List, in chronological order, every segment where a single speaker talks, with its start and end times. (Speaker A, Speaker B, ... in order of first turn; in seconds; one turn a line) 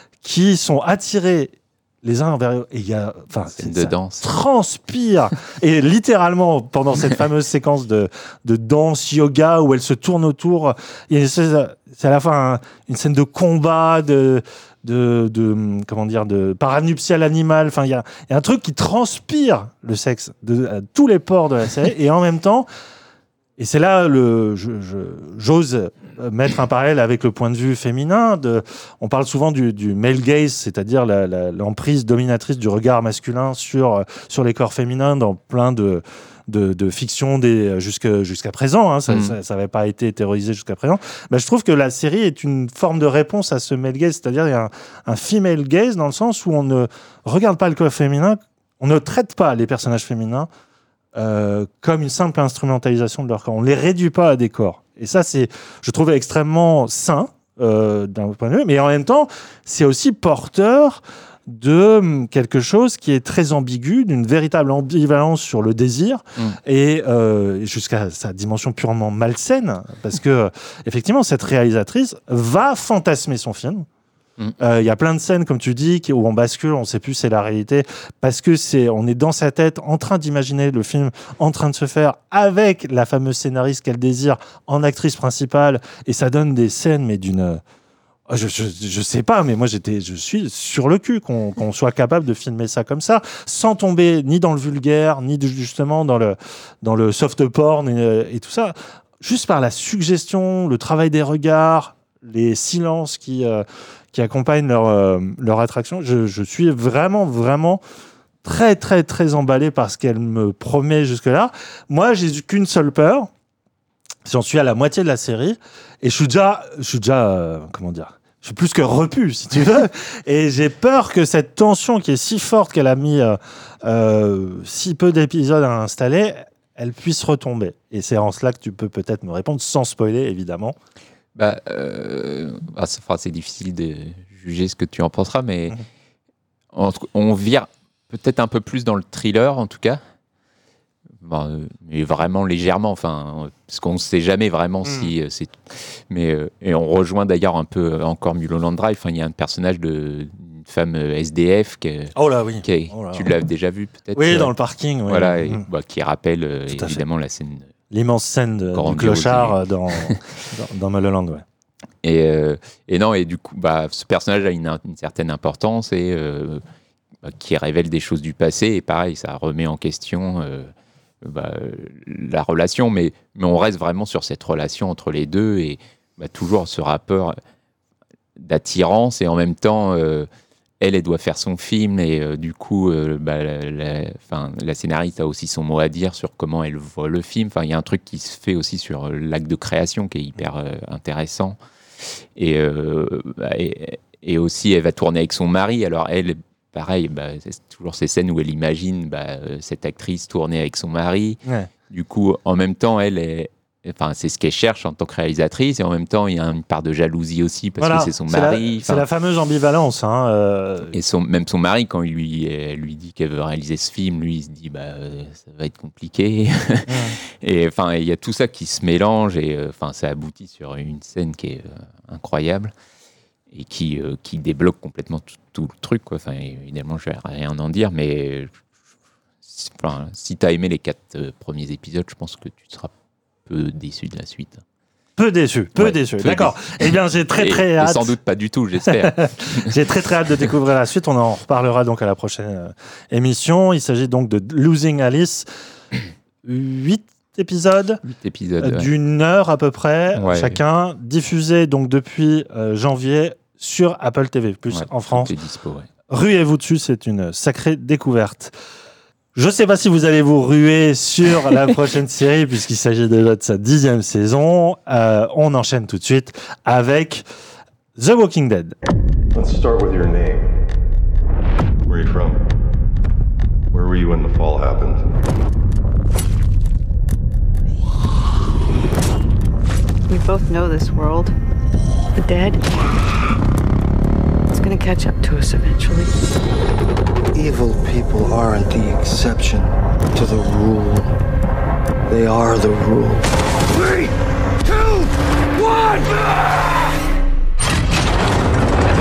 Speaker A: 0.2-22.7
Speaker B: 3.5-4.3
Speaker A: 23.6-50.5
Speaker B: 39.1-39.4
Speaker A: 51.1-73.9
Speaker A: 74.6-87.6
Speaker A: 88.3-107.8
Speaker A: 108.4-113.3
Speaker A: 114.3-130.8
Speaker B: 131.3-135.8
Speaker B: 136.7-140.0
Speaker B: 141.2-154.5
Speaker A: 144.8-145.1
Speaker A: 152.2-153.3
Speaker A: 154.1-155.7
Speaker B: 155.1-157.7
Speaker A: 156.7-157.0
Speaker A: 157.9-161.4
Speaker B: 158.7-160.2
Speaker B: 162.0-166.6
Speaker B: 167.2-170.7
Speaker B: 171.2-177.4
Speaker B: 178.4-180.3
Speaker B: 180.8-191.6
Speaker B: 192.4-209.1
Speaker A: 207.8-210.9
Speaker B: 210.9-222.7
Speaker A: 216.9-217.2
Speaker B: 223.5-228.6
Speaker B: 229.4-232.9
Speaker B: 233.5-234.6
Speaker A: 235.2-238.1
Speaker B: 235.8-239.7
Speaker A: 238.9-245.5
Speaker A: 246.4-248.0
Speaker B: 248.0-248.9
Speaker A: 248.6-255.3
Speaker B: 250.2-250.6
Speaker B: 254.7-255.9
Speaker A: 256.1-258.5
Speaker A: 259.4-267.2
Speaker A: 268.0-268.8
Speaker C: 269.3-270.5
Speaker C: 271.9-272.4
Speaker C: 273.7-275.1
Speaker D: 280.1-281.3
Speaker D: 282.1-282.6
Speaker D: 284.5-286.1
Speaker E: 287.3-291.1
Speaker E: 292.1-294.1